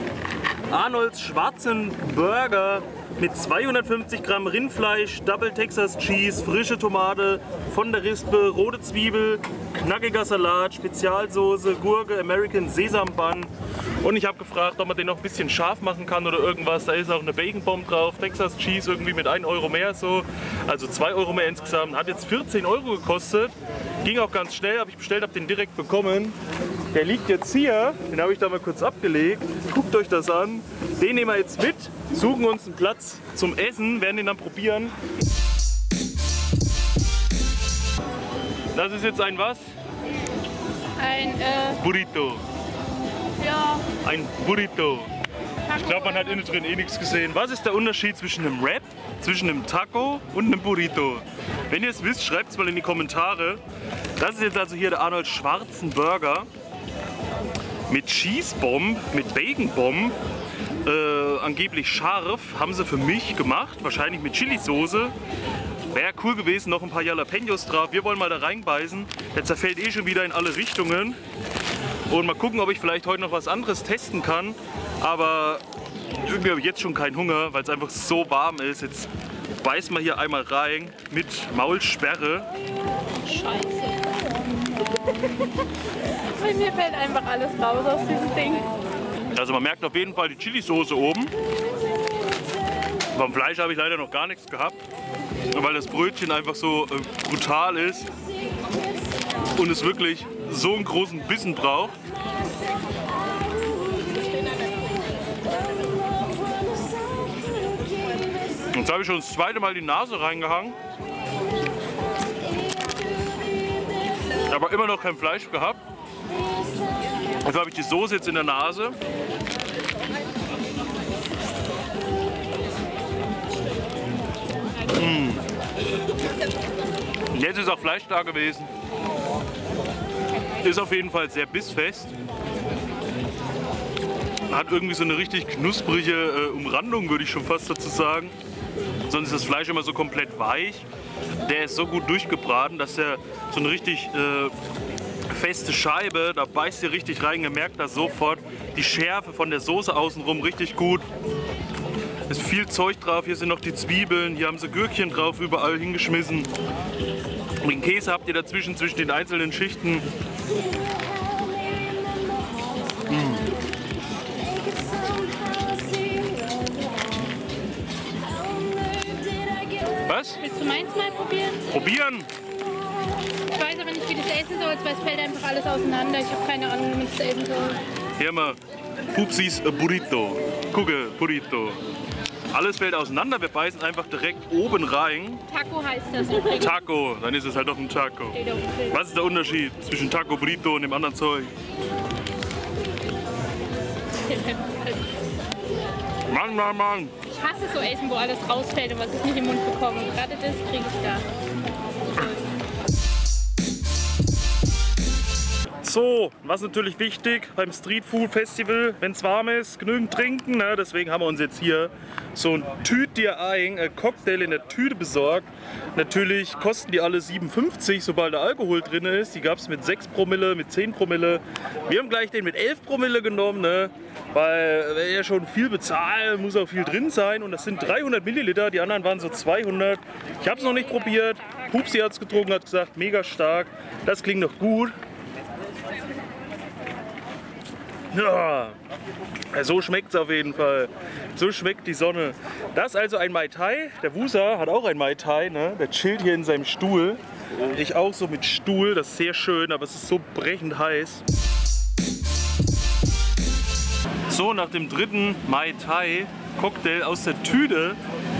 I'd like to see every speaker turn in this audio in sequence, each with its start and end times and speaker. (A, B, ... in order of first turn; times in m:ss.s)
0:00.7-0:26.4 A
0:26.9-0:34.9 A
0:38.7-0:39.6 A
0:41.0-0:41.8 B
0:41.8-0:42.4 A
0:43.4-0:43.9 B
0:43.9-0:45.1 A
0:45.7-0:53.6 A
0:45.8-0:46.3 B
0:54.2-0:56.5 A
0:57.9-1:00.2 A
1:00.8-1:05.1 A
1:05.9-1:11.2 A
1:12.1-1:22.5 A
1:23.2-1:24.2 B
1:24.9-1:25.6 B
1:26.4-1:28.7 B
1:29.3-1:31.3 A
1:33.1-1:34.8 A
1:35.5-1:38.1 A
1:39.6-1:42.0 A
1:48.7-1:50.8 A
1:54.5-1:55.8 A
1:57.4-1:59.0 A
2:04.9-2:05.4 A
2:07.3-2:08.7 A
2:10.6-2:12.1 A
2:14.5-2:18.3 A
2:19.1-2:20.8 A
2:21.4-2:24.5 A
2:25.3-2:31.0 A
2:32.3-2:36.5 A
2:37.6-2:40.1 A
2:43.1-2:43.5 A
2:50.0-2:50.4 A
2:50.4-2:51.7 B
2:51.7-2:52.3 A
2:53.5-2:57.8 B
2:58.2-3:01.8 A
3:02.5-3:05.4 A
3:05.5-3:06.7 B
3:06.5-3:11.5 A
3:08.4-3:08.9 B
3:14.2-3:15.1 B
3:16.3-3:17.2 A
3:17.2-3:21.3 B
3:22.1-3:22.4 B
3:25.8-3:54.9 A
3:58.1-3:58.8 A
3:59.5-4:11.2 A
4:14.3-4:18.0 A